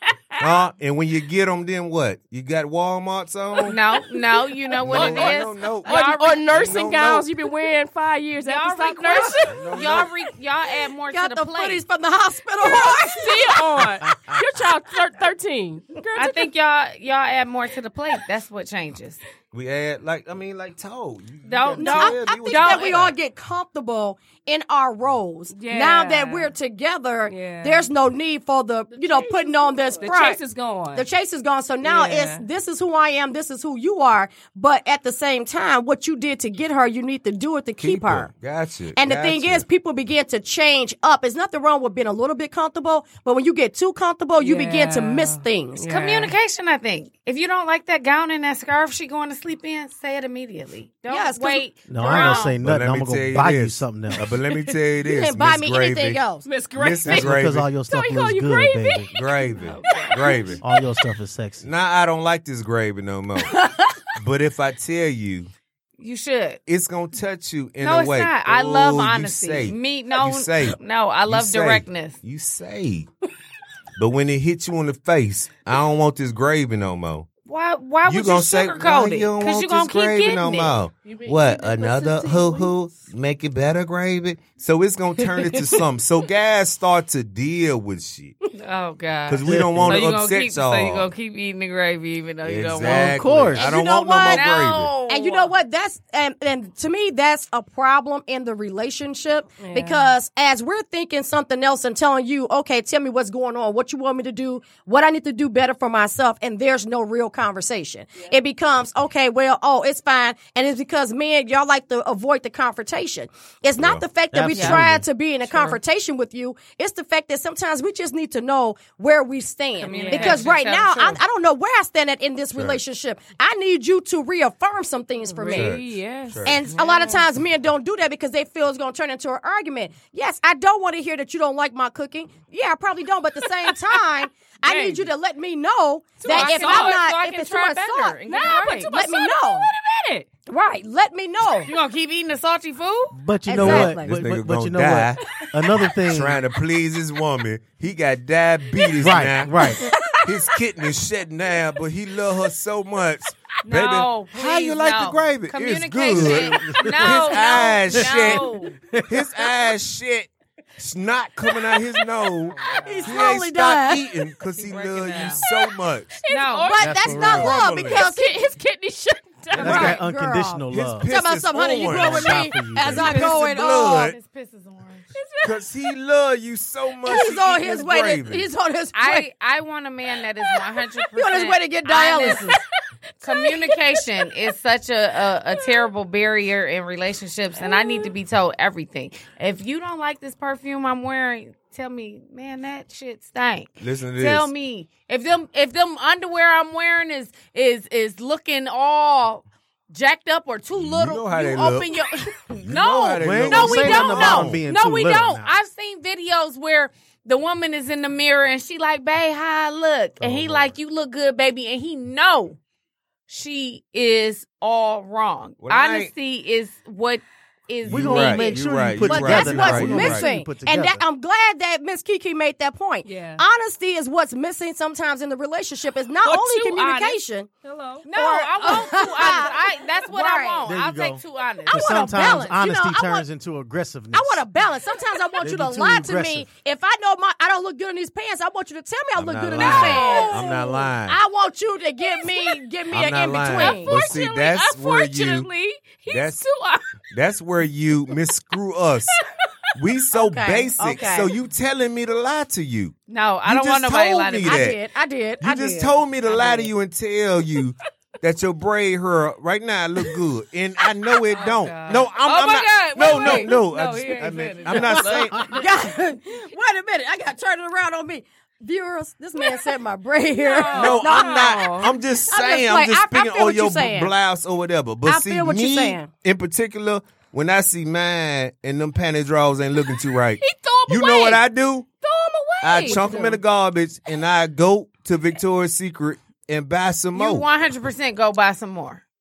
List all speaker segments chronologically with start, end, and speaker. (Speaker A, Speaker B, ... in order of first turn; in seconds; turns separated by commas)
Speaker A: 0.4-3.8, Speaker B: 3.6-6.5, Speaker A: 4.8-7.3, Speaker C: 4.9-5.3, Speaker C: 5.8-9.6, Speaker B: 8.4-11.8, Speaker A: 9.5-10.1, Speaker D: 11.1-14.4, Speaker C: 12.8-16.5, Speaker B: 16.2-19.2, Speaker A: 19.5-23.1, Speaker B: 21.4-23.0, Speaker D: 21.8-30.4, Speaker C: 25.5-26.5, Speaker C: 27.3-27.9, Speaker C: 29.0-31.1, Speaker D: 30.9-38.3, Speaker C: 31.8-32.5, Speaker A: 37.8-39.7, Speaker D: 39.0-45.9, Speaker C: 44.4-46.3, Speaker B: 45.9-52.6, Speaker D: 51.1-51.6, Speaker E: 51.9-54.3, Speaker A: 52.5-56.2, Speaker D: 55.0-56.5, Speaker C: 56.4-57.3, Speaker A: 56.8-57.7, Speaker E: 57.0-59.1, Speaker C: 57.9-59.3, Speaker A: 59.1-60.6, Speaker B: 59.6-60.6, Speaker C: 59.8-60.5, Speaker E: 60.6-61.6, Speaker A: 61.6-63.6, Speaker A: 64.2-65.5, Speaker B: 66.0-66.6, Speaker A: 66.7-73.1, Speaker B: 67.8-72.2, Speaker A: 74.0-77.3, Speaker B: 77.5-80.8, Speaker A: 78.1-88.4, Speaker C: 81.4-82.5, Speaker B: 85.3-85.8, Speaker B: 88.5-95.5, Speaker A: 89.3-91.1, Speaker E: 89.5-90.0, Speaker A: 92.4-94.9, Speaker E: 92.8-93.7, Speaker D: 93.6-94.4, Speaker D: 95.1-125.8, Speaker C: 99.6-100.1, Speaker A: 113.8-114.8, Speaker E: 114.3-115.0, Speaker B: 115.5-115.8, Speaker B: 119.8-121.2, Speaker C: 119.8-120.4, Speaker A: 122.5-122.8, Speaker C: 125.2-127.2, Speaker A: 125.5-126.6, Speaker D: 126.5-139.7, Speaker C: 134.6-135.1, Speaker C: 136.2-137.0, Speaker B: 136.2-138.9, Speaker C: 138.3-140.3, Speaker D: 140.5-141.7, Speaker B: 141.7-143.2, Speaker E: 143.1-146.4, Speaker D: 143.5-144.2, Speaker A: 143.5-145.2, Speaker A: 146.1-149.7, Speaker E: 149.0-149.9, Speaker D: 149.8-150.2, Speaker A: 150.2-158.5, Speaker B: 153.7-158.8, Speaker E: 156.1-157.2, Speaker E: 158.9-159.3, Speaker A: 159.1-166.2, Speaker D: 162.7-164.1, Speaker B: 164.6-165.5, Speaker C: 165.2-170.0, Speaker B: 166.3-166.8, Speaker D: 166.7-168.5, Speaker E: 166.8-167.9, Speaker A: 167.1-168.0, Speaker D: 169.6-174.1, Speaker E: 169.6-171.1, Speaker A: 170.7-174.2, Speaker E: 171.8-173.2, Speaker B: 172.9-175.1, Speaker C: 175.1-175.6, Speaker A: 175.4-178.5, Speaker D: 177.1-179.3, Speaker B: 178.9-182.5, Speaker D: 181.2-182.6, Speaker C: 183.2-184.3, Speaker B: 183.2-212.6, Speaker C: 185.5-185.9, Speaker C: 187.6-188.1, Speaker A: 193.8-194.5, Speaker A: 200.8-204.6, Speaker E: 203.2-205.5, Speaker A: 210.2-210.7, Speaker B: 213.3-218.5, Speaker A: 215.6-216.1, Speaker A: 217.8-220.3, Speaker E: 217.9-221.0, Speaker D: 218.3-227.5, Speaker C: 223.0-223.4, Speaker C: 226.2-228.1, Speaker B: 228.1-232.1, Speaker D: 228.1-230.6, Speaker E: 230.7-234.4, Speaker D: 231.7-233.2, Speaker D: 234.1-244.0, Speaker E: 235.4-236.5, Speaker A: 239.2-241.2, Speaker C: 239.7-240.8, Speaker C: 242.1-242.6, Speaker A: 242.9-245.5, Speaker C: 243.4-246.9, Speaker A: 246.1-246.5, Speaker A: 247.1-249.2, Speaker A: 249.8-252.9, Speaker D: 250.1-251.3, Speaker B: 253.1-254.7, Speaker A: 253.5-254.8, Speaker D: 254.4-256.7, Speaker A: 255.4-265.5, Speaker B: 261.3-265.6, Speaker D: 265.4-271.7, Speaker C: 270.4-271.5, Speaker B: 270.5-271.9, Speaker A: 270.7-281.9, Speaker D: 272.3-274.1, Speaker D: 275.1-276.1, Speaker C: 280.4-281.4, Speaker C: 282.0-283.2, Speaker A: 282.6-287.5, Speaker D: 282.8-283.4, Speaker B: 287.1-289.0